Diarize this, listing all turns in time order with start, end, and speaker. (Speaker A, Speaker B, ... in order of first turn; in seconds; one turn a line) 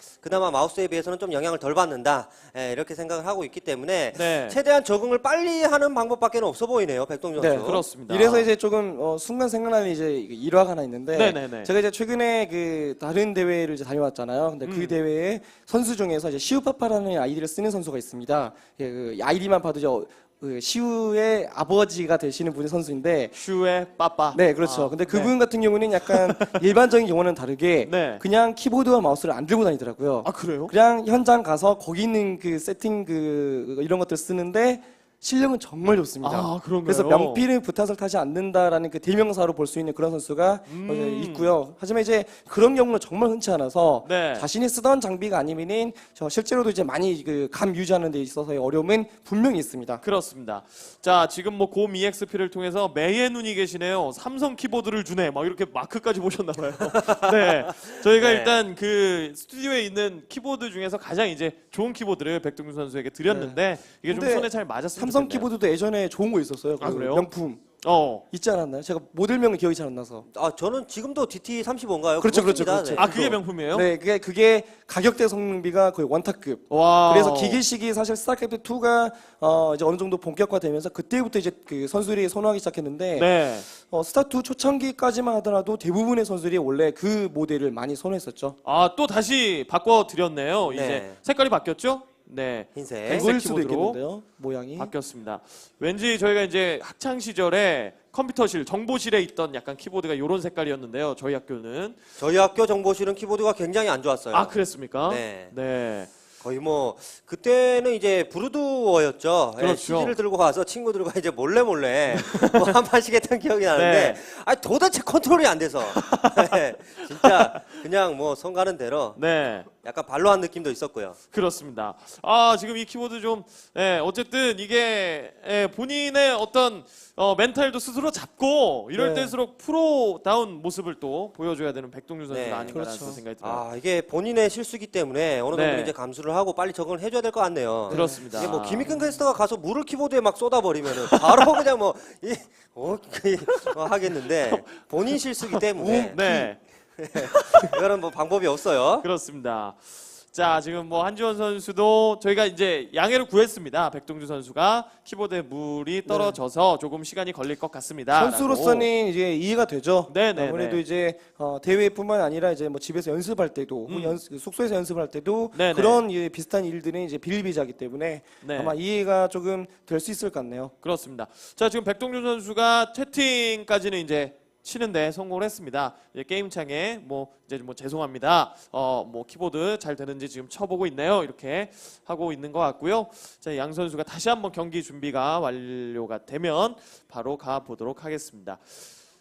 Speaker A: 0.2-7.8
Speaker B: 4.1-4.6
Speaker C: 7.4-23.3
Speaker B: 7.5-8.5
Speaker B: 11.1-11.7
Speaker B: 14.6-15.0
Speaker B: 23.3-25.3
Speaker C: 24.3-50.0
Speaker B: 26.0-26.6
Speaker B: 27.8-28.2
Speaker B: 30.2-30.7
Speaker B: 36.2-37.4
Speaker B: 40.6-41.5
Speaker B: 44.0-44.5
Speaker B: 50.0-65.5
Speaker A: 57.0-57.3
Speaker A: 58.0-58.6
Speaker C: 63.3-67.6
Speaker B: 66.8-67.3
Speaker B: 67.8-68.2
Speaker C: 68.3-70.2
Speaker A: 70.3-73.1
Speaker C: 72.2-88.6
Speaker B: 72.9-73.9
Speaker B: 76.7-77.6
Speaker B: 83.1-83.7
Speaker B: 88.6-94.0
Speaker A: 90.7-91.2
Speaker A: 92.7-93.3
Speaker C: 93.1-94.9
Speaker B: 94.8-102.0
Speaker A: 102.2-105.5
Speaker B: 104.3-106.1
Speaker A: 106.4-119.2
Speaker B: 109.6-110.2
Speaker B: 112.1-112.6
Speaker B: 113.7-114.2
Speaker B: 115.8-116.6
Speaker B: 117.1-117.7
Speaker B: 119.2-119.7
Speaker A: 119.8-121.2
Speaker B: 121.3-133.6
Speaker C: 128.9-129.3
Speaker A: 132.3-132.8
Speaker C: 132.7-133.2
Speaker A: 133.4-146.2
Speaker B: 135.5-135.9
Speaker B: 137.9-138.9
Speaker C: 137.9-139.2
Speaker B: 144.4-146.6
Speaker C: 145.8-146.5
Speaker A: 147.0-149.1
Speaker B: 147.1-147.8
Speaker B: 149.0-158.9
Speaker C: 156.1-156.4
Speaker C: 158.1-170.7
Speaker B: 160.1-160.8
Speaker B: 163.8-164.2
Speaker B: 165.5-166.0
Speaker B: 168.4-168.8
Speaker B: 170.8-188.8